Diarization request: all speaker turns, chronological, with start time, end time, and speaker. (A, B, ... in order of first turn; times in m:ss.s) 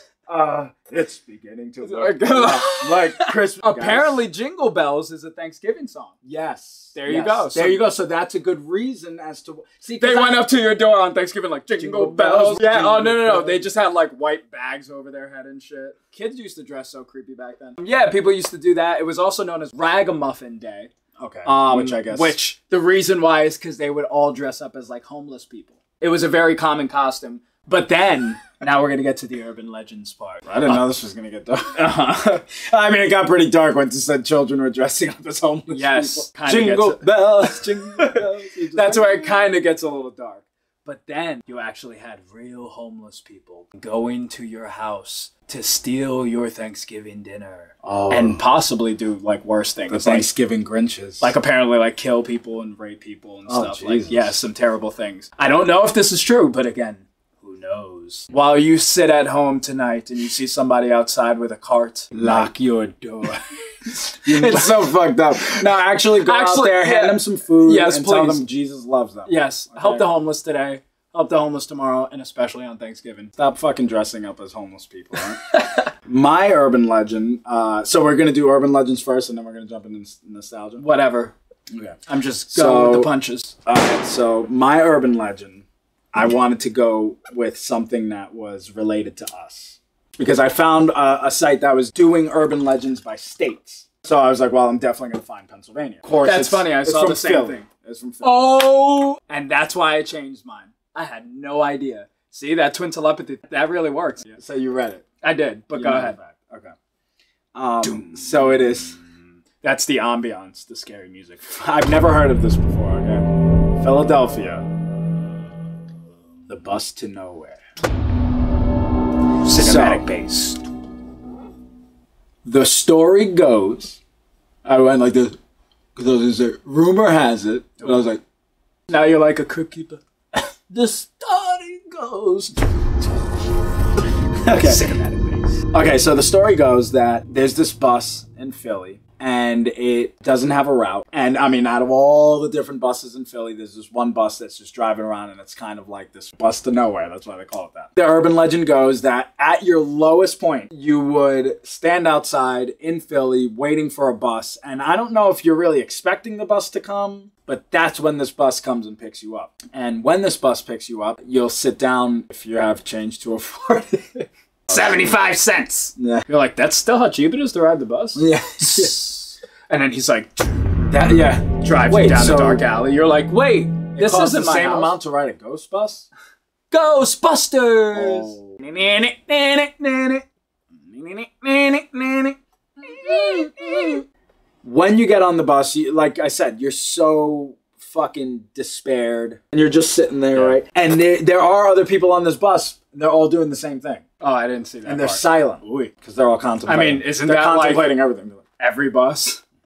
0:00.3-0:04.2 A
0:01.8-0:06.1 B
0:06.2-0:10.5 A
0:06.9-0:07.8 B
0:10.0-0:20.9 B
0:11.8-0:13.6 A
0:21.2-0:22.4 A
0:21.4-0:30.8 B
0:30.5-0:39.5 A
0:31.8-0:32.4 B
0:35.7-0:37.0 B
0:38.7-0:50.3 B
0:47.8-0:48.4 A
0:49.9-0:51.3 A
0:51.2-1:04.9 B
0:53.5-0:54.3 A
1:02.1-1:02.5 A
1:04.2-1:10.0 A
1:06.2-1:08.4 B
1:09.2-1:13.3 B
1:13.4-1:15.4 A
1:15.5-1:15.9 B
1:16.0-1:20.8 A
1:20.8-1:21.3 B
1:21.7-1:22.0 A
1:22.1-1:23.5 B
1:22.5-1:23.1 A
1:23.6-1:38.4 A
1:36.1-1:37.6 B
1:38.2-1:44.3 B
1:44.3-1:45.0 A
1:45.2-1:46.2 B
1:45.7-1:46.7 A
1:47.5-1:49.0 A
1:47.8-1:48.6 B
1:49.6-1:51.6 B
1:51.5-1:54.7 A
1:56.5-1:57.6 A
1:59.4-2:00.6 B
1:59.5-2:00.0 A
2:02.4-2:04.0 A
2:04.6-2:05.4 A
2:06.0-2:08.2 A
2:08.9-2:10.0 B
2:10.7-2:12.5 A
2:14.4-2:14.8 A
2:14.5-2:15.6 B
2:15.7-2:44.2 A
2:44.7-2:50.8 B
2:46.0-2:46.2 A
2:48.2-2:49.0 A
2:50.9-2:52.6 A
2:51.6-2:54.9 B
2:53.9-2:56.1 A
2:56.7-2:58.4 B
2:57.9-3:00.2 A
3:00.9-3:04.0 A
3:04.6-3:14.0 A
3:14.2-3:15.9 B
3:14.8-3:18.4 A
3:16.7-3:17.9 B
3:18.6-3:19.4 B